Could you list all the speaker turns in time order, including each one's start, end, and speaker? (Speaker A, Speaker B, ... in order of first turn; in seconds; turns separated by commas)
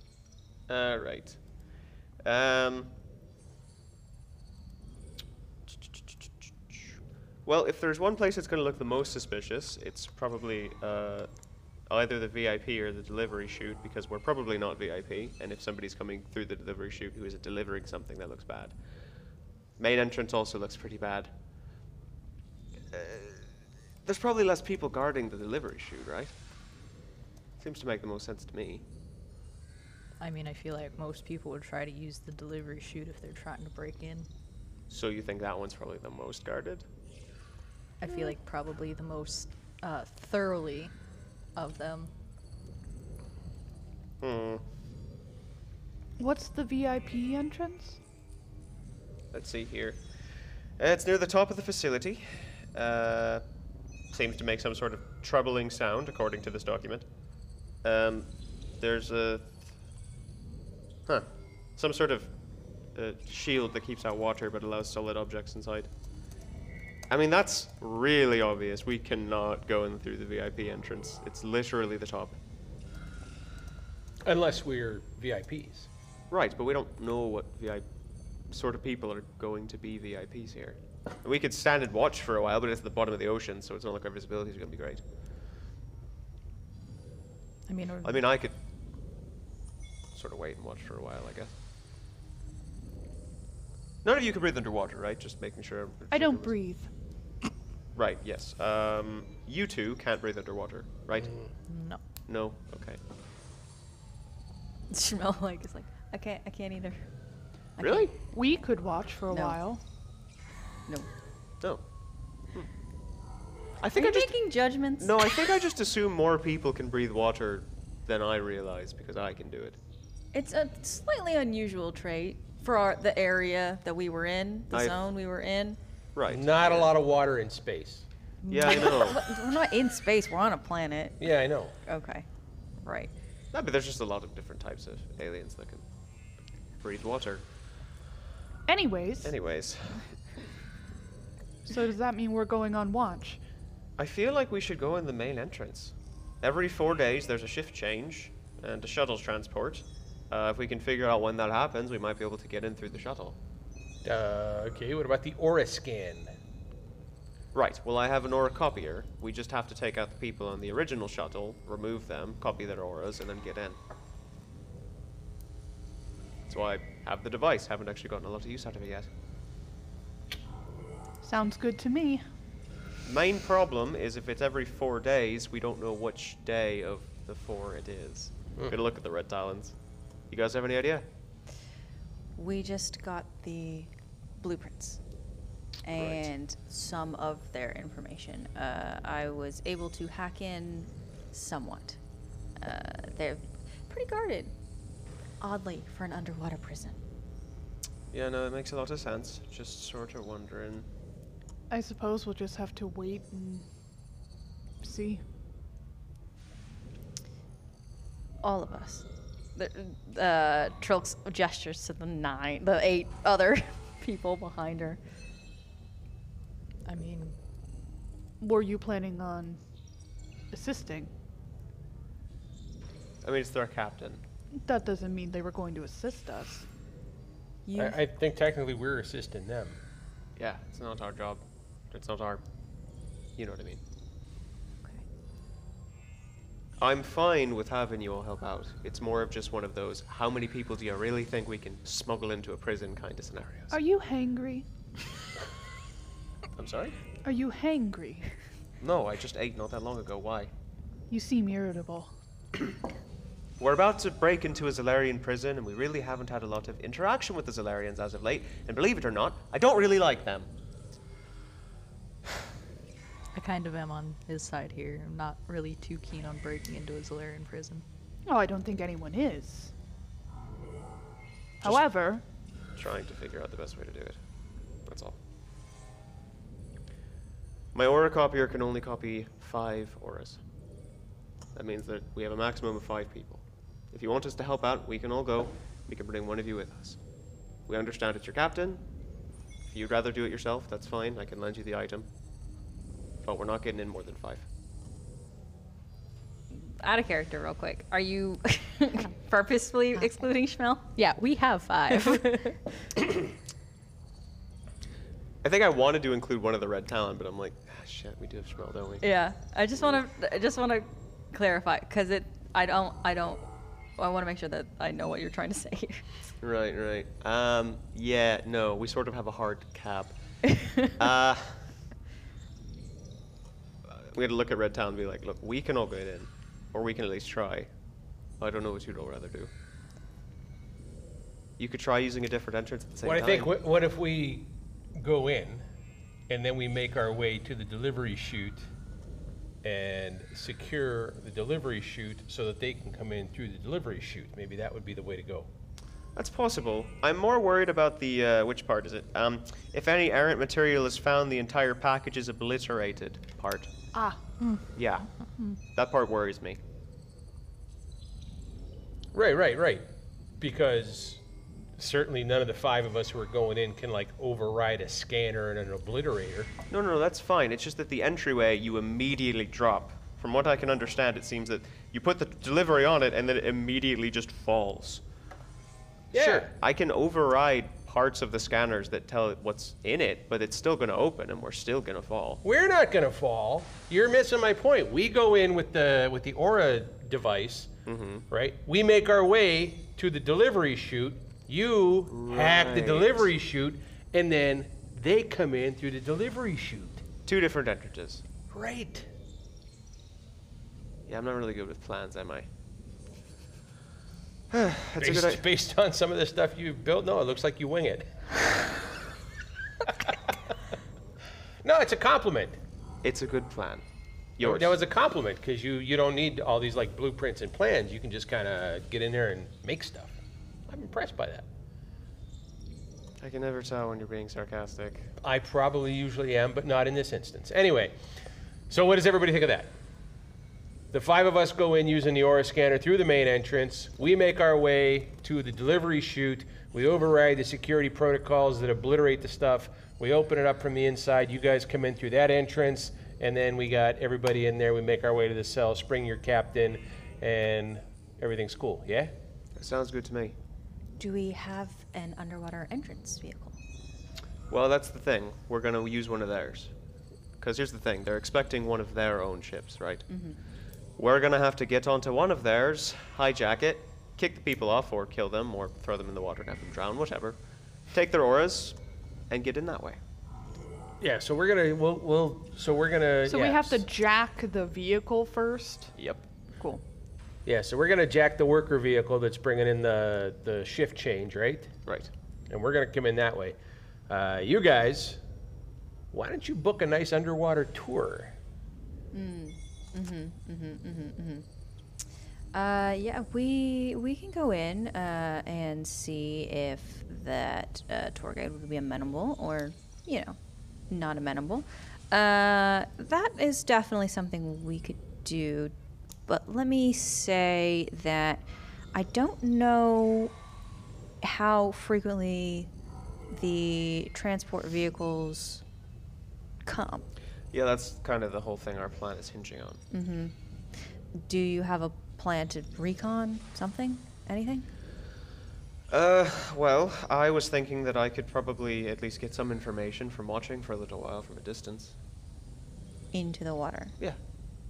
Speaker A: 0.7-1.4, Speaker A: 2.2-2.9, Speaker A: 7.5-11.3, Speaker A: 11.9-18.7, Speaker A: 19.8-21.3, Speaker A: 22.9-23.5, Speaker A: 24.0-26.3, Speaker A: 27.6-28.8, Speaker B: 30.2-34.3, Speaker A: 34.9-36.9, Speaker B: 38.0-40.9, Speaker B: 41.5-42.1, Speaker A: 44.2-44.6, Speaker C: 46.2-48.0, Speaker A: 49.3-50.0, Speaker A: 50.8-53.4, Speaker A: 54.1-57.1, Speaker A: 57.8-59.7, Speaker A: 61.0-62.3, Speaker A: 62.9-65.9, Speaker A: 67.1-72.4, Speaker D: 74.2-75.9, Speaker A: 76.3-77.8, Speaker A: 78.5-85.0, Speaker B: 87.7-88.2, Speaker A: 88.0-88.5, Speaker A: 90.1-91.5, Speaker A: 94.0-96.6, Speaker C: 96.1-96.9, Speaker A: 97.9-101.3, Speaker B: 101.7-102.0, Speaker A: 102.3-103.0, Speaker E: 104.9-107.0, Speaker E: 107.8-108.1, Speaker A: 107.8-108.1, Speaker C: 108.2-109.8, Speaker E: 109.3-109.6, Speaker A: 113.8-114.3, Speaker E: 113.9-115.2, Speaker A: 115.0-119.8, Speaker E: 120.3-125.8, Speaker A: 124.7-125.0, Speaker A: 126.1-126.9, Speaker D: 126.3-128.1, Speaker A: 128.5-129.2, Speaker E: 128.5-131.2, Speaker D: 131.2-131.7, Speaker E: 131.8-132.2, Speaker E: 132.8-133.1, Speaker A: 133.5-135.8, Speaker A: 136.8-137.4, Speaker C: 138.7-139.3, Speaker A: 139.2-140.0, Speaker C: 141.7-143.4, Speaker A: 144.0-153.4, Speaker D: 154.0-156.3, Speaker A: 157.5-163.8, Speaker A: 166.4-169.1, Speaker C: 171.2-172.2, Speaker A: 173.0-179.7, Speaker A: 180.3-181.0, Speaker E: 182.4-185.0, Speaker E: 185.8-192.0, Speaker A: 186.0-186.3, Speaker E: 192.6-194.5, Speaker E: 195.4-197.0, Speaker A: 198.1-200.9, Speaker C: 201.7-203.6, Speaker C: 204.8-205.2, Speaker E: 208.4-209.0, Speaker E: 209.6-215.0, Speaker B: 216.8-217.3, Speaker C: 218.4-219.6, Speaker C: 220.5-221.1, Speaker A: 223.2-224.2, Speaker C: 224.6-226.7, Speaker E: 227.7-228.0, Speaker D: 227.7-229.8, Speaker A: 230.4-232.4, Speaker A: 233.4-233.8, Speaker A: 236.8-243.8, Speaker C: 243.7-244.7, Speaker A: 246.6-247.0, Speaker C: 247.2-248.3, Speaker A: 248.8-250.5, Speaker C: 251.1-252.1, Speaker A: 253.6-260.5, Speaker B: 263.3-267.8, Speaker C: 268.2-269.7, Speaker C: 271.6-272.2, Speaker A: 272.8-274.2, Speaker A: 274.9-275.2, Speaker A: 277.7-280.4, Speaker A: 281.5-287.0, Speaker A: 287.7-288.8, Speaker A: 289.6-292.1, Speaker A: 293.2-294.5, Speaker E: 296.6-300.9, Speaker B: 300.9-302.6, Speaker E: 301.9-302.5, Speaker A: 305.4-309.1, Speaker E: 309.0-316.0, Speaker A: 316.4-320.1, Speaker A: 320.9-321.6, Speaker A: 323.9-327.7, Speaker A: 328.4-329.5, Speaker A: 331.6-333.5, Speaker D: 333.0-335.6, Speaker D: 336.3-338.7, Speaker D: 339.6-345.5, Speaker A: 346.1-353.7, Speaker C: 353.9-354.2, Speaker A: 354.7-355.1, Speaker A: 355.7-356.6, Speaker D: 359.1-359.8, Speaker D: 360.4-361.2, Speaker D: 361.8-366.5, Speaker A: 366.7-375.0, Speaker D: 376.1-376.5, Speaker A: 376.1-382.4, Speaker D: 382.4-387.7, Speaker A: 387.9-388.2, Speaker D: 388.3-397.1, Speaker A: 392.1-393.3, Speaker A: 397.2-398.2, Speaker D: 398.5-399.1, Speaker A: 401.1-402.5, Speaker A: 404.5-405.4, Speaker D: 405.0-408.8, Speaker D: 411.6-412.6, Speaker A: 413.0-413.8, Speaker A: 414.4-414.8, Speaker D: 414.4-420.1, Speaker D: 420.7-421.4, Speaker A: 423.2-425.1, Speaker D: 425.2-427.9, Speaker D: 428.7-429.7, Speaker D: 430.9-449.1, Speaker A: 449.6-450.4, Speaker E: 451.0-453.6, Speaker A: 454.5-456.7, Speaker A: 457.4-460.1, Speaker E: 460.1-460.4, Speaker A: 461.0-467.4, Speaker A: 467.9-468.8, Speaker A: 469.3-470.0, Speaker D: 471.0-473.8, Speaker C: 473.2-475.9, Speaker A: 476.0-476.2, Speaker D: 477.4-481.7, Speaker A: 481.9-482.1, Speaker D: 482.5-483.6, Speaker D: 484.1-485.2, Speaker D: 486.1-488.3, Speaker E: 489.1-491.4, Speaker E: 492.5-500.4, Speaker E: 500.9-505.7, Speaker E: 506.3-510.3, Speaker E: 511.2-512.7, Speaker E: 513.3-515.6, Speaker E: 516.6-517.0, Speaker A: 517.5-519.8, Speaker E: 519.9-520.3, Speaker E: 521.1-524.7, Speaker A: 525.9-531.9, Speaker E: 533.1-533.9